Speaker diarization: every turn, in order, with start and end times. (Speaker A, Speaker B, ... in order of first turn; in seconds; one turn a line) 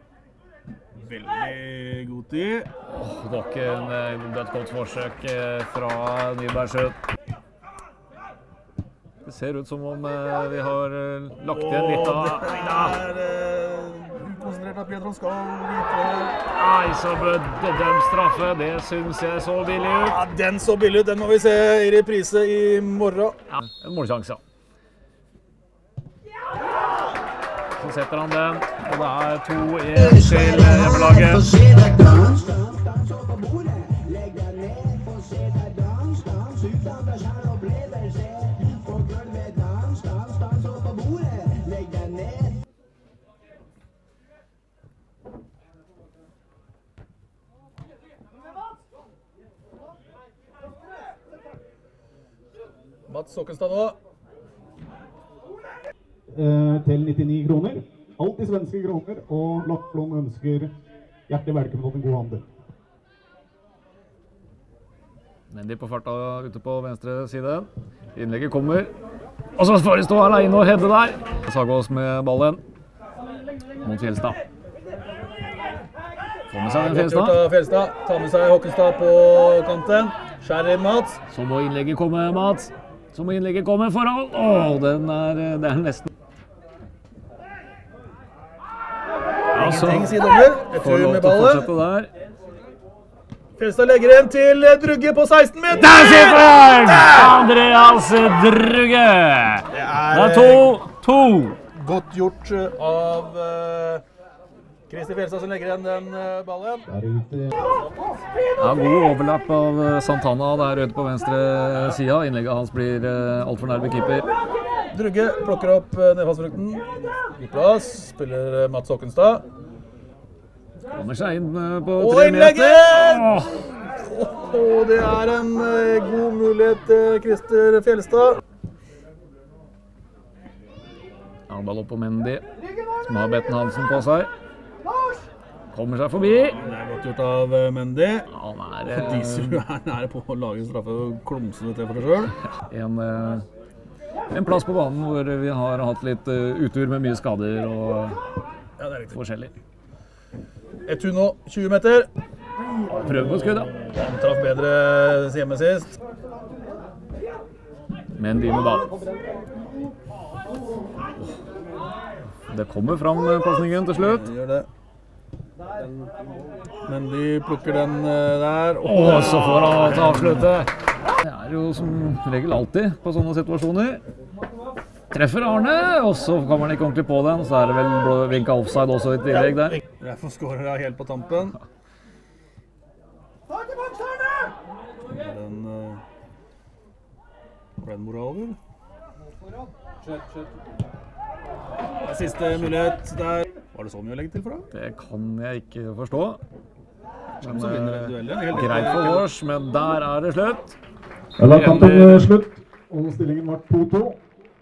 Speaker A: 1.0-2.7
Speaker B: 2.9-7.0
Speaker B: 9.2-13.0
Speaker A: 11.5-16.4
Speaker B: 16.5-20.2
Speaker A: 19.9-23.4
Speaker B: 23.5-24.4
Speaker B: 27.7-31.8
Speaker A: 30.2-31.3
Speaker A: 53.1-54.0
Speaker C: 56.3-60.7
Speaker C: 61.3-62.5
Speaker B: 65.5-68.9
Speaker B: 69.6-72.6
Speaker B: 73.8-74.4
Speaker B: 76.5-77.4
Speaker A: 76.6-81.2
Speaker B: 81.3-86.1
Speaker B: 89.5-90.2
Speaker A: 89.5-91.7
Speaker B: 90.8-92.1
Speaker A: 93.6-97.3
Speaker B: 95.7-101.6
Speaker A: 99.7-100.8
Speaker A: 101.8-104.0
Speaker A: 104.9-106.9
Speaker C: 106.9-107.5
Speaker B: 108.6-114.3
Speaker A: 114.9-119.4
Speaker B: 120.9-123.6
Speaker A: 122.0-128.4
Speaker B: 131.5-132.4
Speaker B: 133.0-134.3
Speaker B: 135.7-136.6
Speaker A: 136.2-138.3
Speaker B: 138.3-139.6
Speaker A: 138.9-142.3
Speaker B: 142.6-143.5
Speaker B: 144.3-148.2
Speaker A: 148.8-149.2
Speaker B: 149.1-149.6
Speaker A: 150.9-152.1
Speaker B: 152.9-153.7
Speaker A: 153.1-155.9
Speaker B: 158.1-158.9
Speaker B: 162.5-164.3
Speaker A: 164.0-164.7
Speaker A: 166.9-170.5
Speaker B: 168.8-174.0
Speaker B: 175.1-179.8
Speaker A: 180.0-181.6
Speaker A: 185.1-186.0
Speaker A: 187.8-188.6
Speaker A: 192.0-194.7
Speaker B: 194.7-196.4
Speaker A: 197.4-199.3
Speaker B: 197.4-200.8
Speaker C: 201.4-204.2
Speaker B: 201.4-202.3